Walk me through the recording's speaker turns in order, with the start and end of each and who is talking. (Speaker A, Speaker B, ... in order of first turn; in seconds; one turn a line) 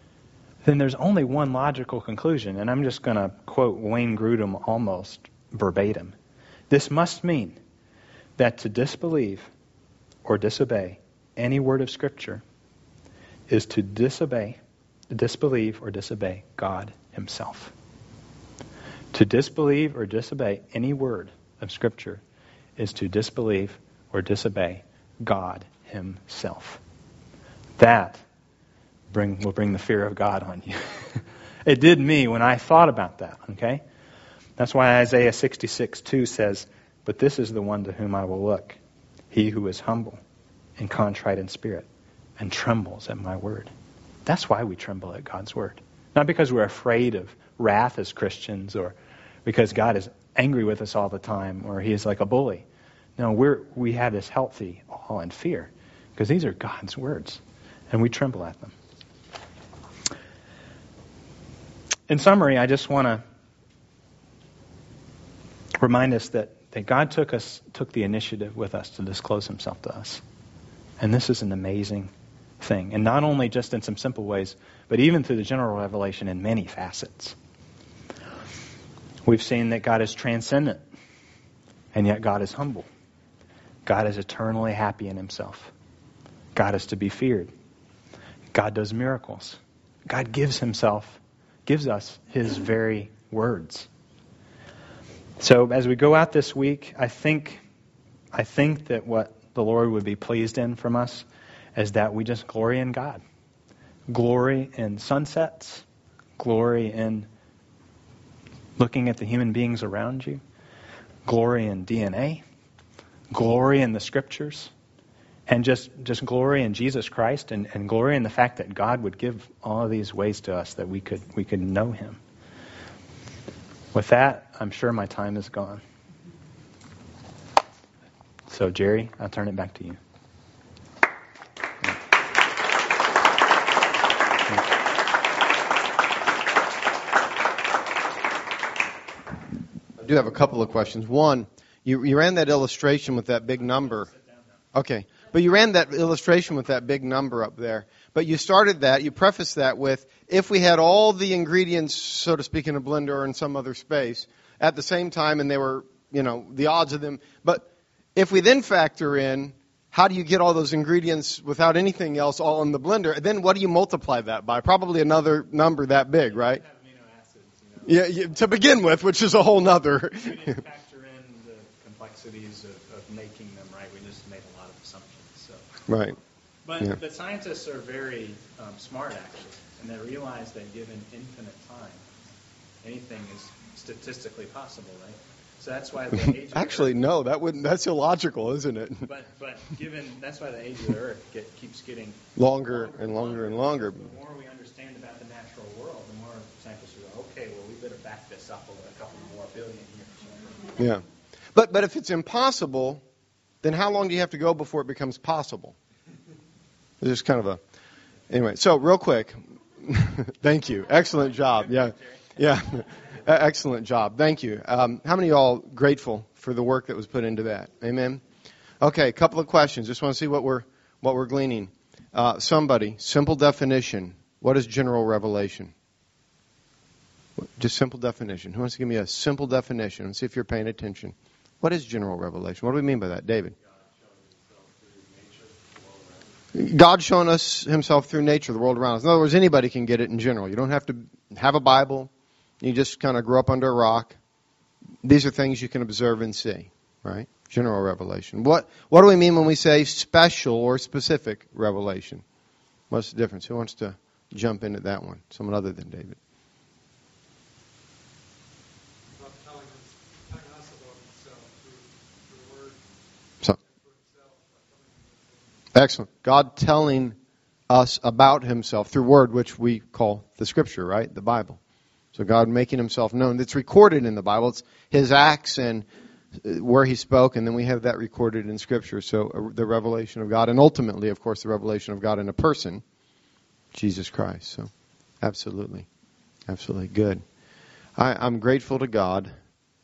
Speaker A: 0.7-6.2
Speaker A: 6.7-7.6
Speaker A: 8.4-9.5
Speaker A: 10.2-12.4
Speaker A: 13.5-14.6
Speaker A: 15.1-17.7
Speaker A: 19.1-22.2
Speaker A: 22.8-26.8
Speaker A: 27.8-28.2
Speaker A: 29.1-33.8
Speaker A: 34.6-38.8
Speaker A: 39.3-40.2
Speaker A: 40.8-41.9
Speaker A: 42.4-43.7
Speaker A: 44.3-52.6
Speaker A: 53.2-58.7
Speaker A: 62.1-63.2
Speaker A: 65.8-70.2
Speaker A: 71.0-77.4
Speaker A: 79.2-80.8
Speaker A: 81.9-82.9
Speaker A: 83.9-85.7
Speaker A: 86.5-87.5
Speaker A: 88.5-93.9
Speaker A: 95.4-97.6
Speaker A: 98.3-101.2
Speaker A: 101.8-103.2
Speaker A: 104.1-105.8
Speaker A: 106.4-107.3
Speaker A: 108.8-110.4
Speaker A: 111.3-112.4
Speaker A: 113.3-114.7
Speaker A: 115.5-122.2
Speaker A: 123.9-125.8
Speaker A: 128.5-130.0
Speaker B: 140.0-144.1
Speaker B: 144.7-166.6
Speaker A: 166.3-168.3
Speaker B: 167.8-170.6
Speaker A: 170.2-175.6
Speaker B: 175.9-176.2
Speaker A: 176.7-182.1
Speaker A: 182.8-187.0
Speaker B: 186.2-189.1
Speaker A: 189.1-200.6
Speaker B: 192.4-194.1
Speaker B: 201.5-203.0
Speaker B: 203.6-205.8
Speaker B: 207.0-207.6
Speaker B: 208.3-218.2
Speaker B: 218.8-225.7
Speaker B: 227.4-233.6
Speaker C: 234.0-236.3
Speaker B: 236.5-242.1
Speaker B: 242.6-244.2
Speaker B: 245.0-252.2
Speaker B: 252.9-256.2
Speaker C: 259.1-262.8
Speaker C: 263.4-265.5
Speaker B: 265.7-267.1
Speaker B: 267.7-271.6
Speaker B: 272.1-275.9
Speaker B: 276.4-282.8
Speaker B: 283.7-284.7
Speaker B: 285.2-285.9
Speaker B: 286.5-287.2
Speaker B: 288.0-289.3